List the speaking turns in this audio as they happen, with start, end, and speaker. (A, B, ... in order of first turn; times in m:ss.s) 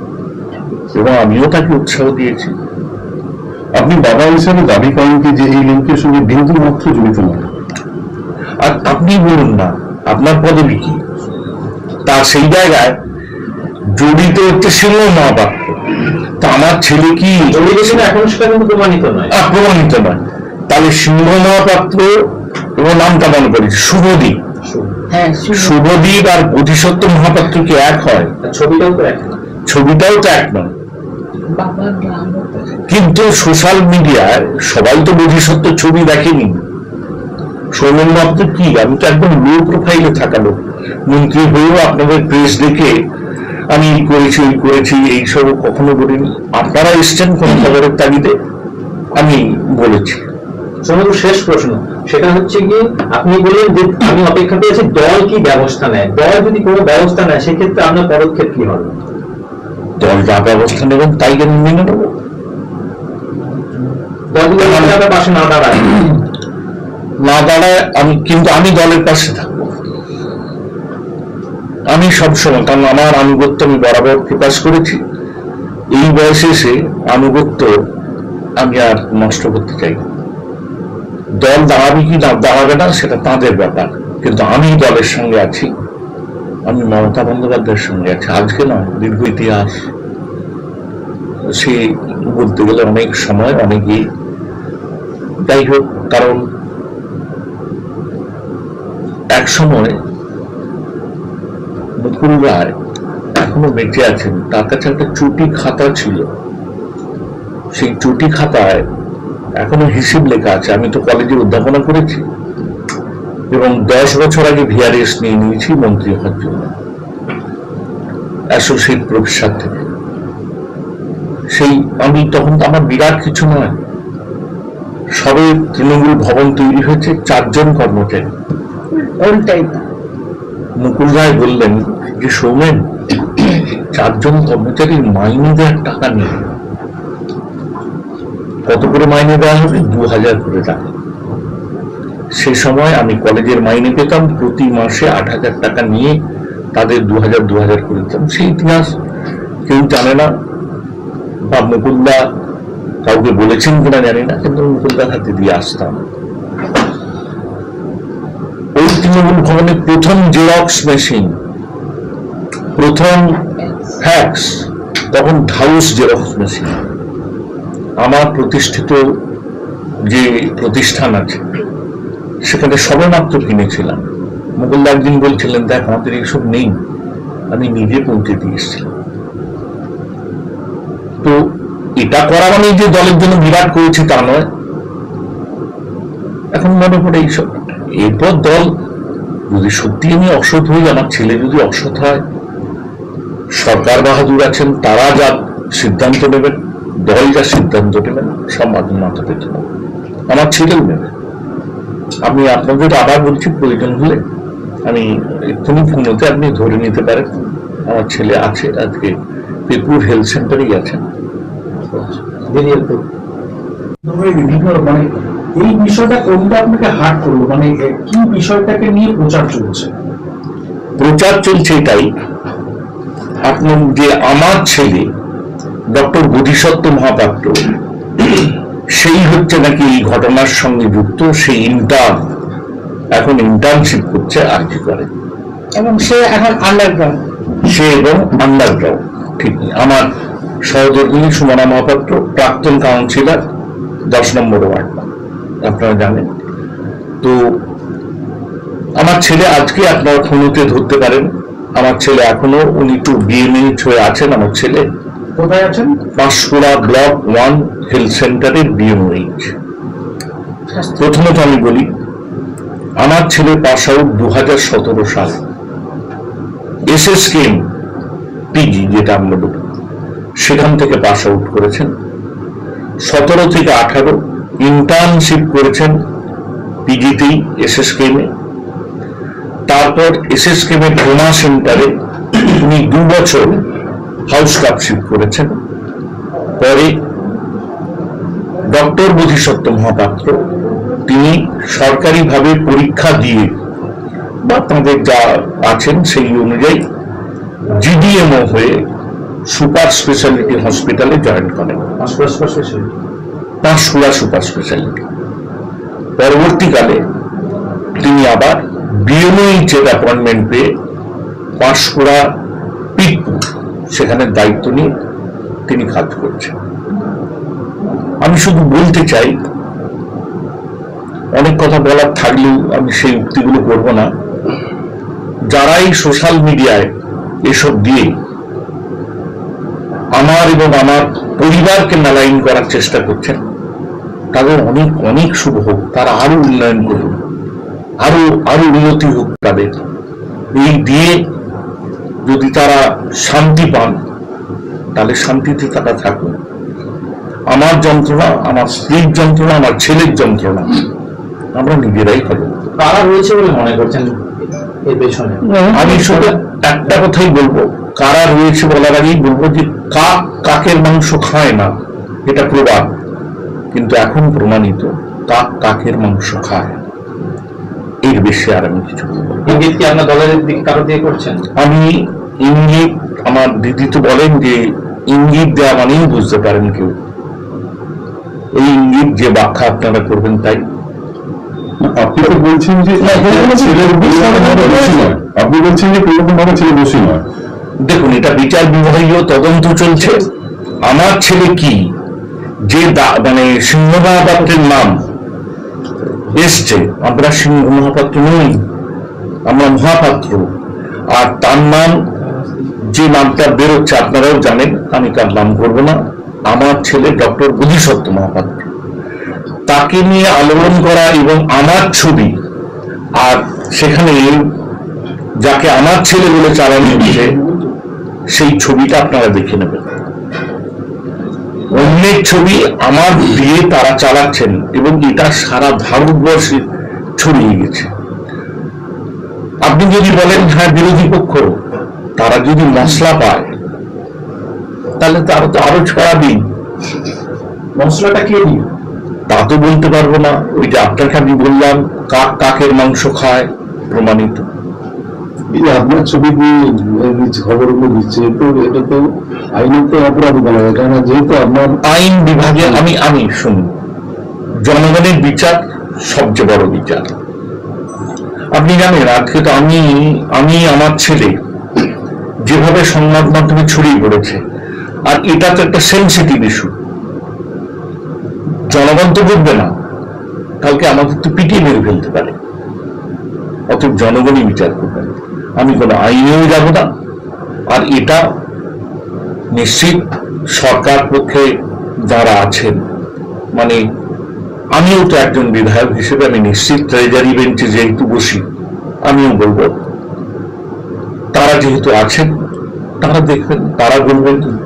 0:00.9-0:02.5 A
0:03.7-0:07.4 B
0:08.6-0:11.0 A
0:12.0-0:13.0 A
0:13.9-0:15.8 A
0:16.4-0:18.1 A
0:17.5-0:19.3 C
0:19.3-0:24.4 A
0:24.6-0:24.9 C
0:25.1-0:25.8 D
0:25.5-0:28.3 A
0:28.4-0:29.3 C
0:29.7-0:30.7 A
0:31.5-0:32.8 D
0:32.9-0:36.6 A
0:37.7-0:43.0 A
0:43.7-0:48.4 A
0:49.2-0:50.2 A
0:50.8-0:59.0 C
1:00.0-1:02.1 A
1:04.3-1:06.2 C
1:04.6-1:05.0 A
1:07.2-1:09.8 A
1:11.9-1:15.0 A
1:15.9-1:17.7 A
1:18.6-1:20.0 A
1:21.4-1:25.7 A
1:26.7-1:29.9 A
1:31.5-1:34.0 A
1:35.4-1:36.4 A
1:39.3-1:40.0 A
1:42.0-1:42.7 A
1:43.3-1:46.3 A
1:47.7-1:48.8 A
1:49.6-1:52.2 A
1:53.5-1:56.7 A
1:58.5-1:59.9 A
2:01.5-2:03.8 A
2:05.2-2:08.3 A
2:09.0-2:09.8 D
2:10.8-2:12.8 A
2:13.9-2:16.4 A
2:18.7-2:20.9 A
2:22.3-2:26.2 A
2:26.7-2:28.9 A
2:29.7-2:30.3 A
2:31.5-2:32.3 A
2:33.0-2:36.0 A
2:38.7-2:41.3 A
2:42.8-2:43.4 A
2:44.0-2:46.8 A
2:48.0-2:49.0 A
2:50.1-2:51.4 A
2:52.4-2:54.1 A
2:54.6-2:56.8 A
2:57.5-2:58.9 A
3:01.2-3:04.5 A
3:06.5-3:08.7 A
3:09.5-3:12.2 A
3:13.5-3:19.7 A
3:20.3-3:21.1 A
3:22.2-3:24.2 A
3:24.8-3:29.2 A
3:29.7-3:31.0 A
3:31.9-3:33.0 C
3:34.0-3:39.9 E
3:41.0-3:42.1 A
3:43.4-3:45.1 A
3:45.9-3:47.7 A
3:48.9-3:52.2 A
3:53.1-3:55.1 A
3:55.8-3:57.2 D
3:57.6-4:00.1 A
4:00.6-4:03.4 A
4:04.1-4:05.1 A
4:05.6-4:06.3 A
4:07.2-4:07.6 A
4:09.0-4:14.9 A
4:15.4-4:16.0 E
4:16.2-4:19.5 A
4:20.7-4:21.1 D
4:21.0-4:21.9 A
4:23.0-4:25.4 A
4:26.9-4:27.6 A
4:28.5-4:29.6 A
4:30.4-4:31.9 A
4:33.0-4:36.0 A
4:36.8-4:38.3 A
4:39.7-4:43.6 A
4:44.3-4:45.6 A
4:46.6-4:47.0 A
4:48.6-4:50.5 A
4:51.0-4:53.5 A
4:54.4-4:56.8 A
4:57.7-4:58.8 A
4:59.5-5:01.9 A
5:02.0-5:02.9 C
5:03.6-5:05.0 A
5:06.2-5:07.0 A
5:07.9-5:10.7 A
5:11.6-5:12.3 A
5:13.0-5:14.9 A
5:15.7-5:16.5 A
5:18.2-5:19.4 A
5:21.3-5:24.1 A
5:25.5-5:26.9 A
5:27.4-5:28.1 A
5:30.2-5:33.4 A
5:34.3-5:37.2 A
5:38.0-5:39.8 A
5:40.5-5:41.2 A
5:42.2-5:44.0 A
5:44.9-5:46.4 A
5:47.5-5:50.8 A
5:51.5-5:52.7 A
5:52.8-5:54.1 C
5:54.8-5:55.4 C
5:55.4-5:56.3 D
5:55.7-6:01.7 A
6:02.3-6:02.9 A
6:03.7-6:06.8 A
6:08.0-6:09.6 A
6:09.5-6:11.4 C
6:11.6-6:16.9 A
6:18.5-6:20.6 A
6:21.8-6:27.2 B
6:23.0-6:25.0 A
6:27.8-6:30.3 A
6:30.8-6:31.9 A
6:32.6-6:35.0 A
6:36.3-6:38.6 A
6:39.5-6:40.5 A
6:41.1-6:42.1 A
6:42.8-6:48.6 A
6:49.7-6:52.4 A
6:53.2-6:54.5 A
6:55.4-6:57.4 A
6:58.3-6:59.8 A
7:01.7-7:06.6 A
7:07.2-7:07.9 A
7:09.6-7:11.5 A
7:12.2-7:13.5 A
7:15.0-7:16.4 A
7:17.8-7:18.6 E
7:19.3-7:24.4 A
7:25.5-7:29.0 B
7:29.5-7:31.8 B
7:31.8-7:33.7 A
7:34.6-7:37.1 A
7:38.5-7:41.4 A
7:42.5-7:44.4 A
7:45.0-7:46.7 A
7:48.7-7:49.7 A
7:50.6-7:52.3 A
7:53.7-7:56.9 A
7:57.7-7:58.2 A
7:59.5-8:01.5 A
8:02.1-8:02.8 A
8:03.5-8:03.8 A
8:04.7-8:08.4 A
8:09.0-8:09.8 A
8:11.3-8:12.3 A
8:13.0-8:14.5 A